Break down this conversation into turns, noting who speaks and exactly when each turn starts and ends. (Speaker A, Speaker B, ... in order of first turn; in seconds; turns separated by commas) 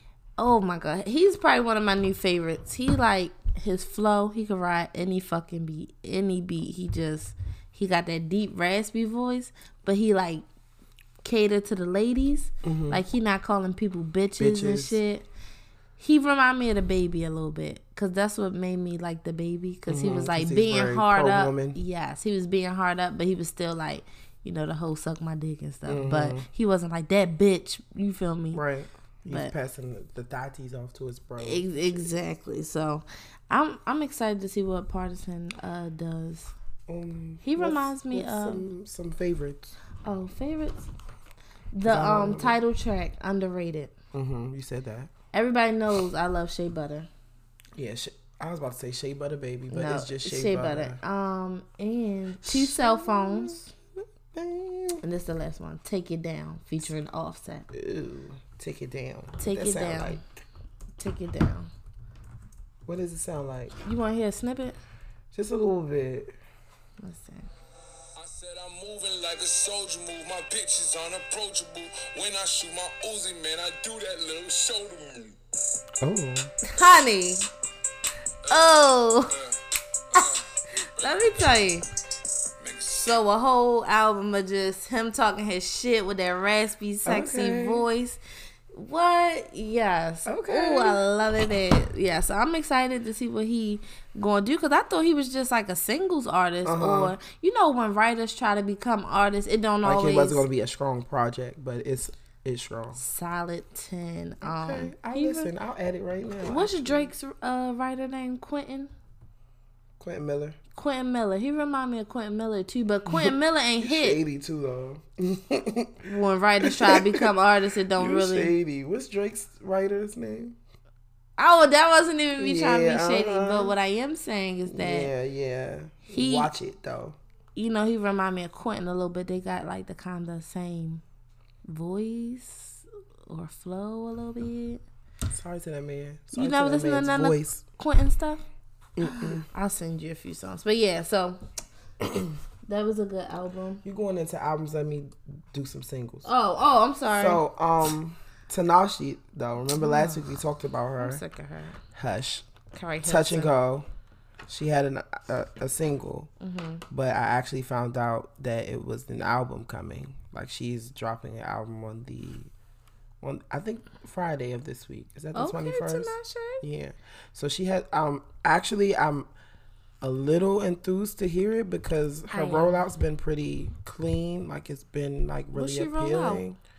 Speaker A: 0.4-10.4, Speaker A: 11.2-15.2, Speaker B: 12.6-13.0, Speaker B: 14.4-15.0, Speaker A: 16.0-28.6, Speaker B: 19.9-21.8, Speaker B: 25.9-26.5, Speaker B: 28.5-31.7, Speaker A: 29.3-29.5, Speaker A: 31.4-36.5, Speaker B: 36.9-39.7, Speaker A: 37.4-38.7, Speaker A: 40.0-40.9, Speaker A: 41.7-43.9, Speaker B: 41.8-42.6, Speaker B: 44.1-45.1, Speaker A: 45.3-47.1, Speaker B: 47.8-51.0, Speaker A: 49.7-53.7, Speaker B: 52.4-53.7, Speaker B: 54.3-55.0, Speaker A: 55.0-57.7, Speaker B: 57.7-60.2, Speaker A: 59.4-60.2, Speaker A: 61.0-61.7, Speaker B: 62.9-63.8, Speaker A: 63.8-64.8, Speaker B: 65.3-66.3, Speaker A: 67.0-67.5, Speaker C: 68.2-75.3, Speaker B: 76.0-76.5, Speaker A: 76.7-77.5, Speaker C: 78.5-78.7, Speaker A: 78.5-79.4, Speaker C: 80.1-80.4, Speaker A: 80.2-81.9, Speaker C: 82.6-83.1, Speaker A: 82.8-88.2, Speaker B: 87.0-87.8, Speaker A: 88.7-100.5, Speaker B: 90.2-91.0, Speaker B: 96.6-97.2, Speaker B: 99.8-103.0, Speaker A: 102.9-105.5, Speaker B: 104.4-107.1, Speaker A: 106.4-108.9, Speaker B: 110.0-110.6, Speaker A: 110.7-114.2, Speaker B: 113.1-116.0, Speaker A: 116.0-118.5, Speaker B: 116.6-117.3, Speaker B: 118.0-120.6, Speaker A: 121.4-125.1, Speaker B: 122.4-123.7, Speaker B: 124.7-127.2, Speaker A: 126.1-126.5, Speaker A: 127.5-131.0, Speaker A: 131.6-134.8, Speaker B: 135.3-137.6, Speaker A: 136.3-138.4, Speaker B: 139.0-139.4, Speaker A: 139.0-141.4, Speaker A: 142.7-143.8, Speaker B: 143.8-146.3, Speaker A: 146.2-147.4, Speaker B: 147.1-151.2, Speaker A: 149.8-150.2, Speaker A: 151.0-151.8, Speaker B: 151.9-152.5, Speaker A: 152.7-153.5, Speaker B: 153.0-153.9, Speaker B: 154.5-156.3, Speaker A: 156.4-156.8, Speaker B: 156.9-162.5, Speaker B: 163.2-169.3, Speaker A: 165.3-166.6, Speaker B: 170.0-176.6, Speaker A: 172.3-172.8, Speaker A: 175.5-176.4